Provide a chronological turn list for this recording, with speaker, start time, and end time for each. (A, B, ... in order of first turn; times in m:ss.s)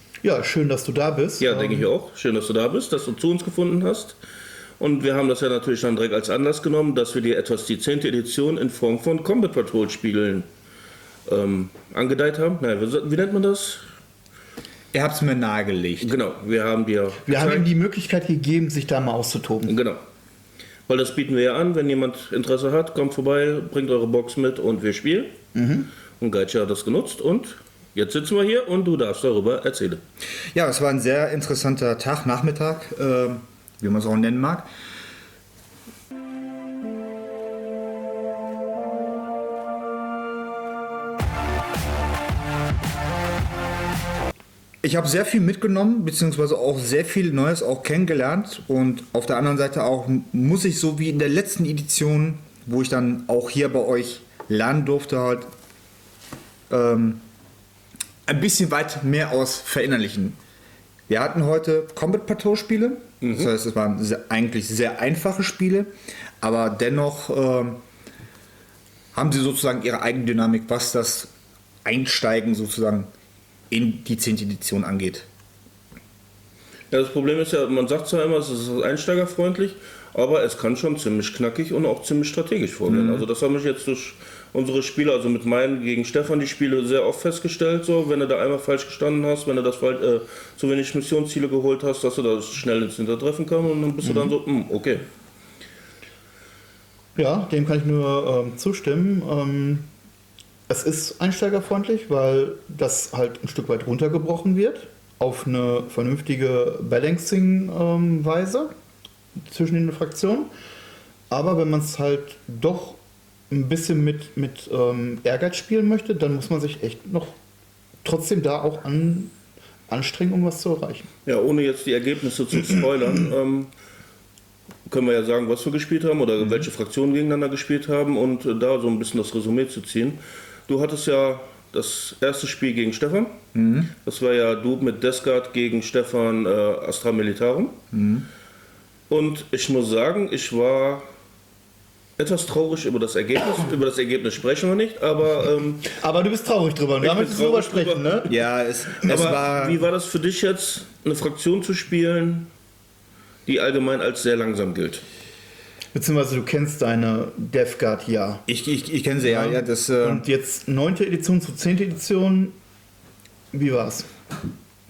0:00.2-0:01.9 A
0:01.4-0:04.2 B
0:04.8-0:10.5 B
0:11.3-0:13.8 B
0:14.9-0:16.2 C
0:16.0-0:17.6 B
0:17.2-0:19.7 A
0:19.6-0:20.0 B
0:20.9-0:25.3 B
0:25.5-0:25.9 A
0:26.2-0:30.0 B
0:30.5-0:34.7 C
0:44.8-0:55.5 C
0:56.7-0:57.2 C
0:58.2-1:00.4 C
1:01.1-1:07.8 C
1:03.2-1:03.5 B
1:09.1-1:11.3 C
1:11.8-1:13.1 C
1:13.7-1:15.3 C
1:16.9-1:35.0 B
1:22.9-1:23.2 C
1:37.2-1:39.9 A
1:40.7-1:48.7 A
1:49.5-1:50.5 A
1:51.3-1:53.0 A
1:53.5-1:57.3 A
1:58.0-1:59.3 A
1:59.9-2:01.1 A
2:01.2-2:03.7 B
2:04.9-2:13.4 B
2:06.4-2:06.7 C
2:13.5-2:13.9 C
2:14.0-2:17.8 B
2:17.9-2:18.2 C
2:19.1-2:21.0 B
2:22.2-2:25.9 B
2:25.9-2:28.3 A
2:27.0-2:28.3 B
2:28.3-2:29.8 C
2:29.0-2:32.5 B
2:33.4-2:35.0 B
2:35.9-2:38.4 A
2:38.5-2:40.2 C
2:39.2-2:42.5 A
2:43.5-2:44.1 A